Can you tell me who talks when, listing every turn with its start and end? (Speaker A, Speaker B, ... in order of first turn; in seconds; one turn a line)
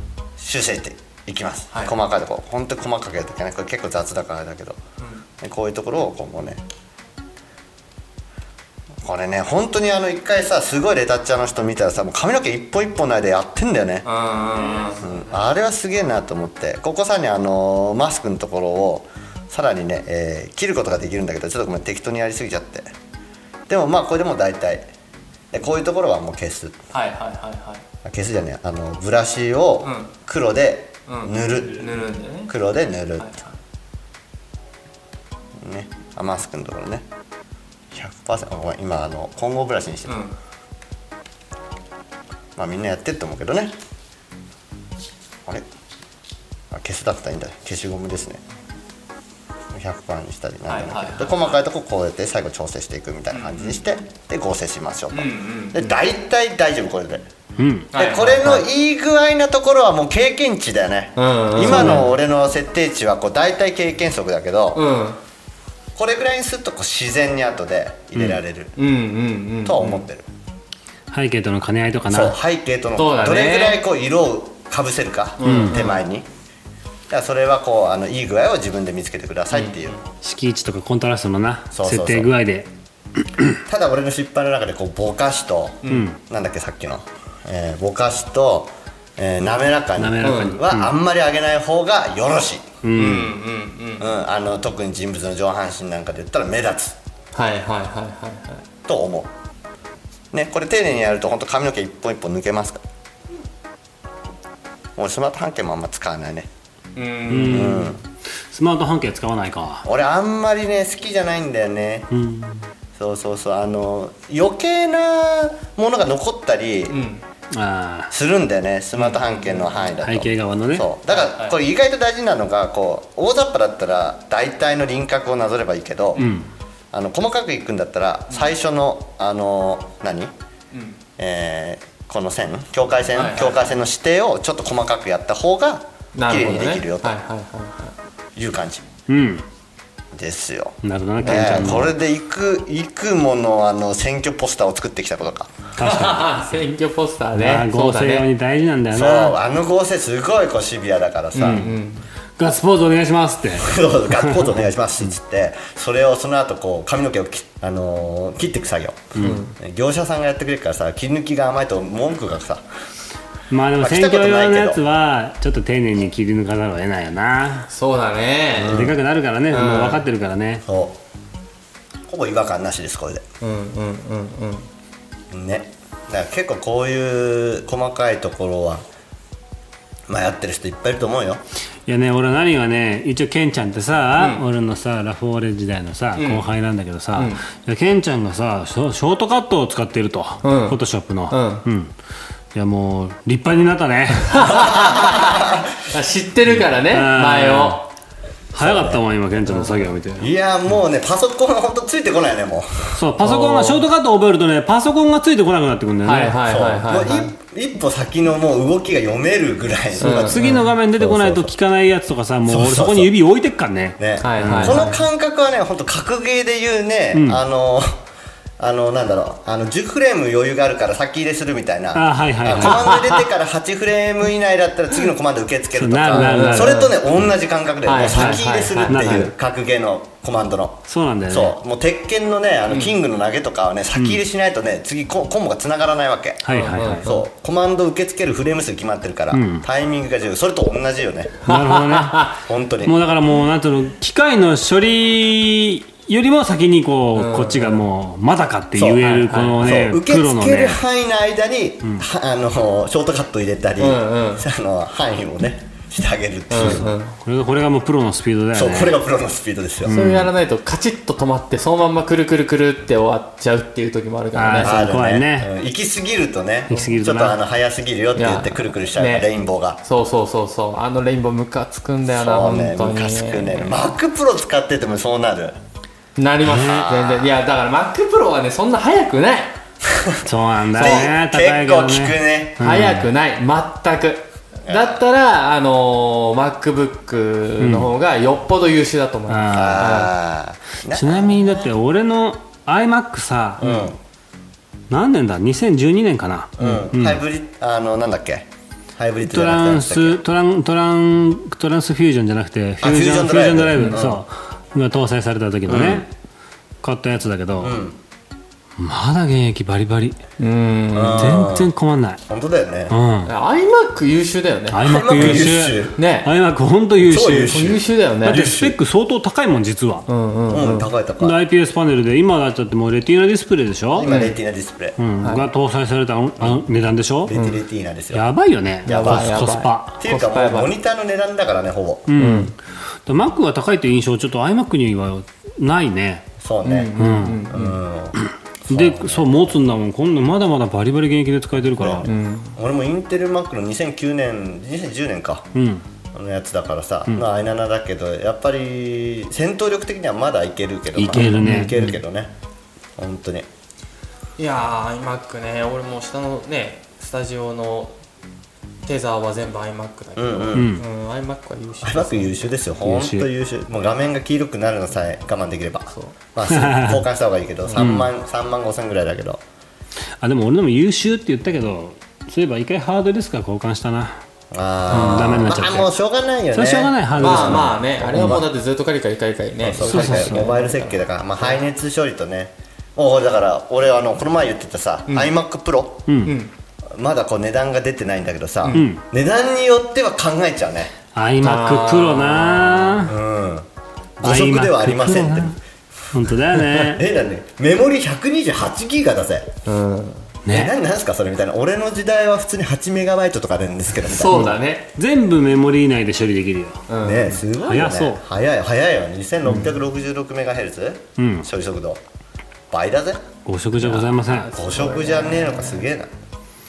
Speaker A: 0.4-4.8
Speaker B: 1.7-1.9
Speaker A: 5.4-6.6
Speaker A: 9.0-14.1
Speaker B: 14.0-15.0
Speaker C: 14.6-15.4
Speaker A: 15.0-22.9
Speaker A: 23.7-24.9
Speaker A: 25.5-26.8
Speaker B: 26.9-27.8
Speaker A: 28.0-33.3
Speaker B: 29.8-30.1
Speaker B: 31.1-32.5
Speaker B: 33.2-33.6
Speaker A: 35.6-37.0
Speaker A: 37.9-40.1
Speaker B: 40.0-40.3
Speaker A: 42.5-43.7
Speaker A: 46.7-48.4
Speaker A: 49.7-57.3
Speaker B: 50.7-51.6
Speaker B: 53.3-53.8
Speaker B: 55.1-55.9
Speaker C: 57.6-57.9
Speaker B: 57.9-58.6
Speaker A: 57.9-64.8
Speaker B: 61.1-62.1
Speaker C: 61.7-62.0
Speaker B: 64.7-65.2
Speaker A: 66.0-68.7
Speaker B: 68.8-70.0
Speaker A: 69.6-70.3
Speaker C: 71.1-72.4
Speaker A: 72.1-76.3
Speaker B: 73.0-73.8
Speaker B: 75.4-76.0
Speaker C: 75.4-75.8
Speaker A: 77.1-80.0
Speaker B: 79.5-79.9
Speaker C: 80.2-83.6
Speaker A: 81.7-82.3
Speaker A: 83.7-92.7
Speaker C: 85.9-86.2
Speaker C: 90.0-90.9
Speaker B: 90.2-90.6
Speaker C: 92.8-93.3
Speaker B: 92.9-94.1
Speaker A: 94.0-97.0
Speaker B: 97.3-98.6
Speaker A: 98.8-99.3
Speaker A: 100.3-102.8
Speaker A: 105.0-106.5
Speaker B: 107.0-107.9
Speaker C: 107.3-108.0
Speaker A: 107.5-108.0
Speaker C: 108.5-109.8
Speaker A: 109.8-112.1
Speaker C: 112.1-112.7
Speaker A: 112.9-117.0
Speaker B: 116.9-117.2
Speaker C: 117.5-118.1
Speaker A: 118.1-126.2
Speaker B: 119.0-119.8
Speaker C: 120.0-120.9
Speaker B: 121.1-121.6
Speaker B: 126.1-126.4
Speaker C: 126.2-126.5
Speaker A: 126.9-130.3
Speaker B: 130.7-131.0
Speaker A: 131.2-137.2
Speaker B: 133.1-133.7
Speaker B: 136.1-137.9
Speaker A: 138.3-138.9
Speaker C: 139.1-139.4
Speaker A: 140.1-145.7
Speaker C: 140.8-141.9
Speaker B: 141.2-141.7
Speaker C: 145.8-146.4
Speaker B: 145.8-148.3
Speaker C: 147.3-149.3
Speaker A: 148.9-151.7
Speaker B: 151.3-152.0
Speaker C: 151.4-151.7
Speaker C: 152.4-154.5
Speaker A: 153.6-162.6
Speaker C: 159.2-159.4
Speaker B: 159.2-159.5
Speaker C: 163.5-167.7
Speaker A: 163.8-164.8
Speaker B: 167.7-168.8
Speaker A: 168.5-169.0
Speaker C: 168.7-170.6
Speaker B: 169.5-170.0
Speaker A: 170.6-171.0
Speaker A: 172.1-173.2
Speaker B: 173.4-174.7
Speaker A: 175.3-178.8
Speaker A: 180.1-181.4
Speaker C: 181.9-191.9
Speaker B: 184.2-184.4
Speaker B: 186.2-186.4
Speaker B: 187.1-187.4
Speaker B: 190.4-190.8
Speaker B: 191.3-191.6
Speaker C: 192.5-194.8
Speaker B: 194.3-197.9
Speaker A: 194.5-195.7
Speaker C: 196.5-197.8
Speaker C: 198.5-200.3
Speaker A: 198.6-199.0
Speaker B: 199.4-199.9
Speaker A: 200.2-203.0
Speaker C: 202.9-206.4
Speaker B: 203.2-203.8
Speaker B: 206.0-207.3
Speaker A: 206.4-211.5
Speaker B: 210.0-210.6
Speaker C: 210.0-214.9
Speaker A: 212.4-213.1
Speaker A: 214.0-217.9
Speaker B: 214.2-215.0
Speaker C: 217.1-217.4
Speaker A: 218.6-241.4
Speaker C: 221.9-222.9
Speaker B: 222.6-223.2
Speaker C: 225.8-226.8
Speaker B: 226.1-226.9
Speaker B: 227.8-229.3
Speaker C: 228.1-229.3
Speaker C: 230.9-231.6
Speaker C: 236.4-237.1
Speaker B: 236.5-237.2
Speaker C: 239.3-239.7
Speaker C: 241.5-242.3
Speaker B: 241.5-242.3
Speaker A: 242.4-242.9
Speaker C: 242.8-250.8
Speaker B: 247.1-247.8
Speaker A: 248.8-249.0
Speaker B: 249.0-249.7
Speaker A: 249.6-256.9
Speaker B: 253.8-254.4
Speaker B: 256.5-257.1
Speaker C: 256.5-259.0
Speaker A: 258.5-259.9
Speaker C: 259.8-260.3
Speaker B: 259.9-264.7
Speaker C: 264.3-265.5
Speaker A: 264.6-269.8
Speaker C: 266.7-267.4
Speaker B: 268.1-269.3
Speaker B: 269.8-273.7
Speaker A: 272.1-275.6
Speaker B: 276.1-279.6
Speaker A: 276.4-277.3
Speaker A: 279.9-282.6
Speaker C: 280.2-283.1
Speaker B: 280.7-281.1
Speaker B: 282.6-290.1
Speaker A: 284.6-285.0
Speaker C: 287.6-287.9
Speaker C: 289.3-290.0
Speaker A: 289.5-291.7
Speaker C: 290.9-293.7
Speaker A: 293.6-294.0
Speaker C: 294.9-297.2
Speaker A: 296.6-300.2
Speaker C: 299.2-306.1
Speaker A: 302.8-304.2
Speaker A: 305.7-306.1
Speaker C: 306.8-307.8
Speaker A: 307.6-308.0
Speaker C: 308.8-310.2
Speaker B: 310.4-311.4
Speaker A: 310.9-311.7
Speaker C: 311.1-312.2
Speaker A: 312.3-312.9
Speaker C: 312.9-313.3
Speaker B: 313.2-315.4
Speaker C: 314.7-320.1
Speaker A: 314.8-316.0
Speaker B: 315.9-316.3
Speaker A: 317.0-318.8
Speaker B: 317.4-318.4
Speaker B: 320.1-320.9
Speaker A: 320.5-321.4
Speaker C: 321.2-324.1
Speaker A: 323.9-325.0
Speaker B: 324.0-324.4
Speaker C: 325.0-327.3
Speaker B: 325.2-325.4
Speaker A: 327.2-328.2
Speaker B: 327.3-327.6
Speaker C: 328.1-329.9
Speaker A: 328.9-329.4
Speaker B: 328.9-330.7
Speaker A: 330.0-332.1
Speaker C: 332.1-332.5
Speaker B: 332.1-332.5
Speaker C: 333.1-336.2
Speaker A: 336.4-336.9
Speaker B: 336.6-337.8
Speaker C: 337.0-337.5
Speaker A: 337.5-338.2
Speaker C: 338.1-342.1
Speaker A: 338.7-339.6
Speaker A: 341.8-345.5
Speaker B: 342.0-342.6
Speaker C: 345.5-345.8
Speaker A: 346.1-352.3
Speaker C: 350.9-351.9
Speaker B: 351.1-351.8
Speaker A: 353.0-353.5
Speaker B: 354.4-357.9
Speaker B: 358.9-362.5
Speaker A: 360.1-360.7
Speaker C: 360.5-360.8
Speaker A: 361.8-369.4
Speaker C: 362.8-363.3
Speaker C: 366.4-367.0
Speaker C: 367.8-368.1
Speaker C: 370.2-374.2
Speaker A: 374.5-378.5
Speaker C: 374.9-375.9
Speaker B: 374.9-375.6
Speaker C: 376.5-378.4
Speaker B: 377.2-381.6
Speaker A: 379.6-386.1
Speaker C: 379.8-380.5
Speaker C: 386.1-386.4
Speaker B: 386.2-386.5
Speaker A: 386.9-390.9
Speaker C: 388.7-389.0
Speaker C: 391.1-393.1
Speaker B: 391.4-393.1
Speaker A: 393.1-393.7
Speaker A: 394.2-395.6
Speaker C: 394.2-395.6
Speaker C: 396.1-397.0
Speaker A: 396.9-399.5
Speaker B: 399.6-400.3
Speaker C: 400.4-400.7
Speaker A: 400.5-404.5
Speaker B: 404.0-404.9
Speaker C: 404.3-406.9
Speaker B: 406.9-407.4
Speaker A: 407.0-412.0
Speaker C: 407.6-408.2
Speaker C: 411.2-411.5
Speaker A: 412.7-413.2
Speaker C: 413.4-414.5
Speaker B: 413.8-415.9
Speaker A: 414.5-416.1